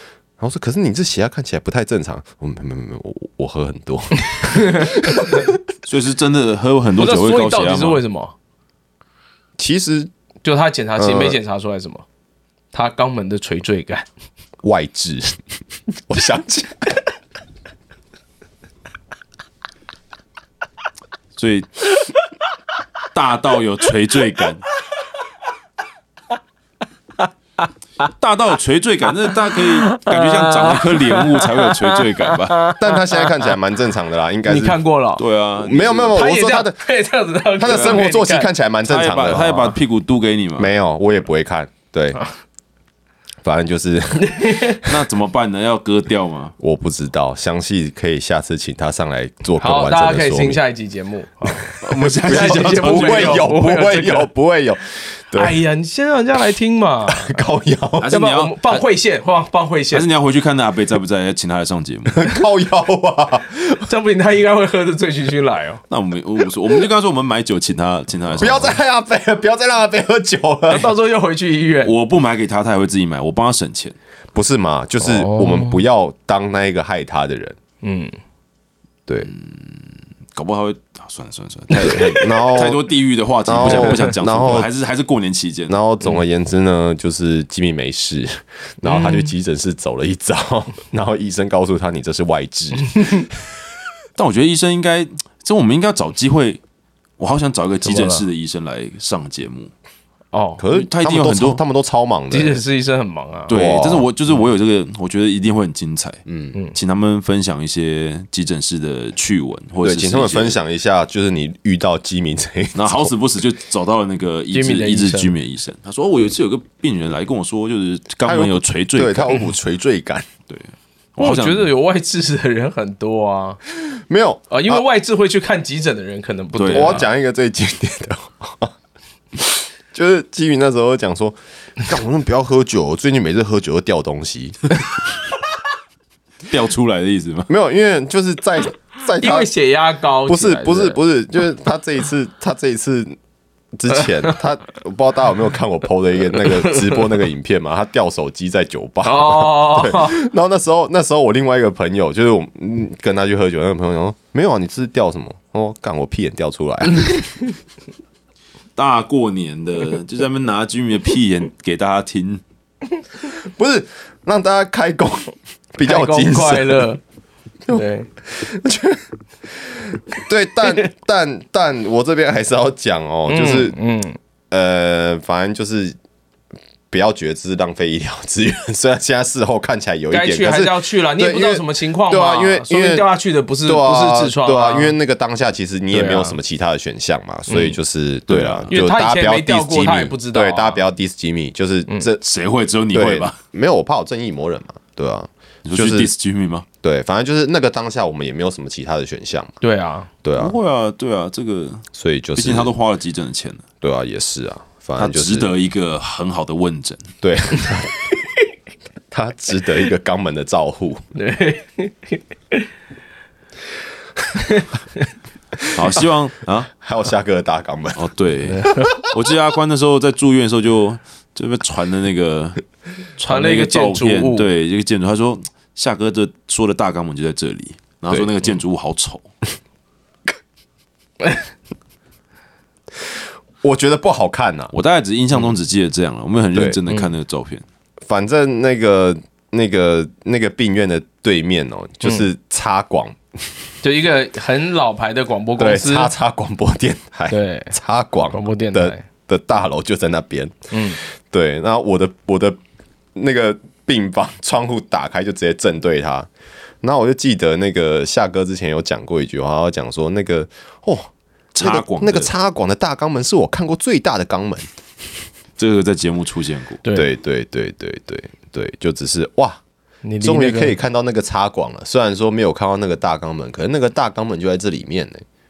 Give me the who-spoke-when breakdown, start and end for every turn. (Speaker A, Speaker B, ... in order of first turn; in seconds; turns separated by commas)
Speaker A: 0.4-5.6, Speaker B: 4.5-5.4, Speaker C: 5.8-8.0, Speaker B: 7.0-8.3, Speaker A: 9.6-10.1, Speaker B: 10.4-12.0, Speaker A: 11.0-11.4, Speaker B: 12.7-14.1, Speaker A: 14.6-15.4, Speaker A: 16.1-17.0, Speaker C: 21.4-21.8, Speaker C: 23.1-24.6, Speaker C: 28.2-32.7, Speaker B: 29.8-33.3, Speaker A: 32.7-34.8, Speaker B: 34.4-35.2, Speaker C: 35.2-36.2, Speaker A: 35.6-36.8, Speaker B: 36.1-38.5, Speaker A: 37.6-39.7, Speaker C: 37.7-38.0, Speaker C: 38.9-40.7, Speaker B: 39.4-39.7, Speaker A: 40.6-42.2, Speaker A: 43.4-45.0, Speaker B: 44.2-44.8, Speaker C: 44.8-46.5, Speaker A: 46.6-50.6, Speaker B: 49.6-54.3, Speaker A: 51.6-55.6, Speaker C: 51.8-53.5, Speaker B: 55.3-57.4, Speaker A: 57.1-58.1, Speaker C: 58.0-58.8, Speaker B: 58.1-60.0, Speaker C: 59.9-62.3, Speaker A: 62.1-63.8, Speaker B: 63.9-65.8, Speaker C: 65.9-68.8, Speaker A: 68.4-70.9, Speaker B: 70.7-71.9, Speaker C: 71.8-74.0, Speaker A: 74.3-77.6, Speaker B: 75.0-75.8, Speaker B: 77.8-78.2, Speaker C: 79.2-85.8, Speaker A: 81.7-82.8, Speaker A: 83.5-84.7, Speaker A: 85.7-93.5, Speaker B: 88.8-89.3, Speaker B: 92.9-93.2, Speaker C: 94.2-96.6, Speaker C: 97.2-99.7, Speaker B: 97.8-98.2, Speaker B: 100.3-100.6, Speaker A: 100.6-102.6, Speaker C: 100.7-101.6, Speaker B: 102.3-103.5, Speaker C: 103.5-106.2, Speaker A: 103.5-104.1, Speaker A: 106.3-106.5, Speaker C: 106.7-110.6, Speaker A: 109.8-113.1, Speaker C: 112.8-119.5, Speaker B: 114.5-115.3, Speaker A: 118.2-120.3, Speaker C: 120.5-121.7, Speaker B: 121.2-123.6, Speaker A: 123.8-124.8, Speaker B: 124.5-127.1, Speaker C: 126.6-127.0, Speaker A: 126.7-128.7, Speaker A: 129.3-135.1, Speaker C: 136.5-137.5, Speaker A: 137.5-139.5, Speaker B: 139.2-141.0, Speaker A: 140.2-143.2, Speaker A: 143.7-157.4, Speaker B: 146.4-147.0, Speaker B: 149.0-150.2, Speaker C: 158.8-162.4, Speaker A: 163.2-166.9, Speaker B: 165.8-167.0, Speaker A: 167.7-173.8, Speaker B: 167.7-168.1, Speaker B: 173.3-174.2, Speaker A: 174.5-176.0, Speaker A: 176.9-183.1, Speaker B: 180.1-184.9, Speaker A: 183.6-192.2, Speaker B: 185.9-186.4, Speaker B: 187.5-187.8, Speaker C: 188.3-188.7, Speaker B: 188.7-190.8, Speaker C: 192.2-193.4, Speaker A: 192.9-196.1, Speaker C: 195.6-196.7, Speaker A: 196.8-199.5, Speaker B: 199.6-200.1, Speaker A: 200.2-200.6, Speaker C: 200.3-201.8, Speaker A: 201.9-202.7, Speaker C: 202.4-203.6, Speaker A: 203.8-205.5, Speaker C: 205.0-207.1, Speaker A: 207.2-208.0, Speaker A: 209.1-211.0, Speaker B: 211.1-212.7, Speaker B: 214.4-215.0, Speaker A: 215.6-216.0, Speaker C: 215.7-216.7, Speaker A: 216.8-218.1, Speaker C: 217.9-222.6, Speaker B: 218.5-218.9, Speaker C: 223.2-229.2, Speaker B: 223.2-224.5, Speaker A: 233.0-234.7, Speaker C: 234.7-237.6, Speaker A: 236.5-236.8, Speaker B: 236.9-237.1, Speaker A: 238.1-243.5, Speaker B: 243.8-246.1, Speaker A: 245.6-252.6, Speaker B: 247.3-247.7, Speaker B: 248.3-249.0, Speaker B: 250.7-251.0, Speaker A: 253.1-256.3, Speaker A: 256.8-264.7, Speaker C: 261.5-262.3, Speaker C: 265.6-266.8, Speaker B: 266.8-267.1, Speaker A: 266.9-269.6, Speaker B: 270.0-270.8, Speaker A: 270.2-275.2